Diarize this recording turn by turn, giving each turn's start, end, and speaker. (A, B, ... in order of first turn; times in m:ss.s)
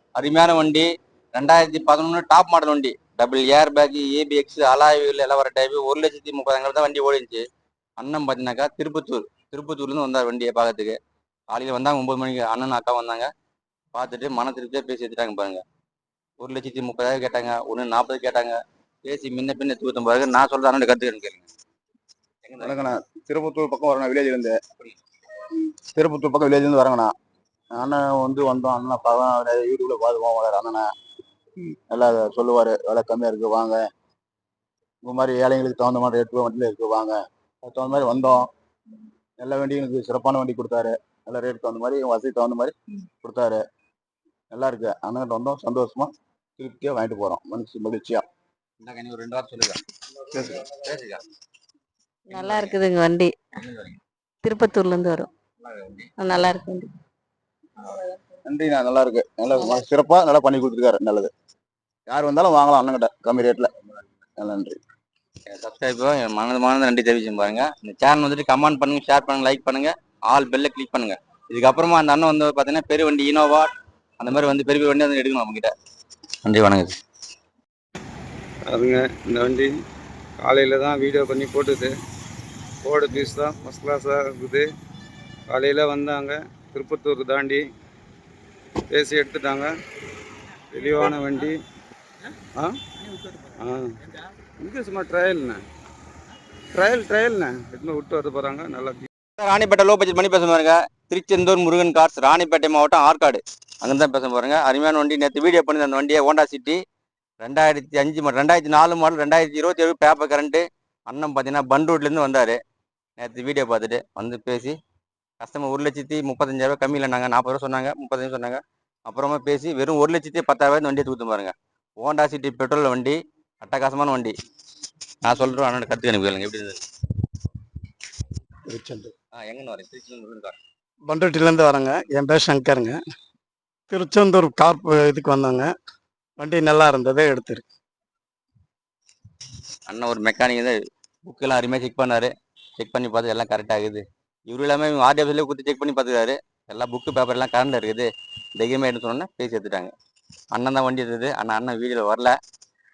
0:00.2-0:07.4 A
0:08.0-0:11.0 A
0:11.5-0:13.3 A
0:13.9-0:15.6 A
0:16.4-0:21.5 A
0:22.4-0:22.9 A
0:22.6-0:24.6 B
0:25.9-0:27.1 B
0:27.8-0:30.8 B
0:31.9-0:33.8 B
0:35.0-0:38.4 B
0:39.4-0:43.6 B
0:44.5-0:48.2 B
0:48.8-0:51.2 A
0:52.3-0:52.8 A
0:52.3-0:53.3 C
0:53.6-0:54.0 A
0:54.4-0:55.3 C
0:55.6-0:56.1 A
0:56.2-0:56.9 C
0:57.9-0:58.3 C
0:58.4-1:01.3 B
1:02.1-1:03.7 B
1:04.4-1:04.8 B
1:05.5-1:15.7 A
1:16.4-1:16.9 A
1:18.7-1:19.7 D
1:20.4-1:21.9 D
1:22.8-1:24.7 D
1:25.5-1:27.6 D
1:28.9-1:29.7 D
1:30.7-1:31.6 D
1:32.5-1:33.9 D
1:34.6-1:35.6 D
1:36.7-1:39.1 D
1:39.4-1:46.8 A
1:47.4-1:52.6 A
1:53.2-1:54.8 A
1:55.4-2:04.3 A
2:05.2-2:06.8 A
2:08.7-2:09.1 E
2:09.3-2:10.6 A
2:11.1-2:13.0 E
2:13.9-2:15.7 E
2:16.4-2:17.7 E
2:19.9-2:29.9 A
2:30.5-2:32.3 A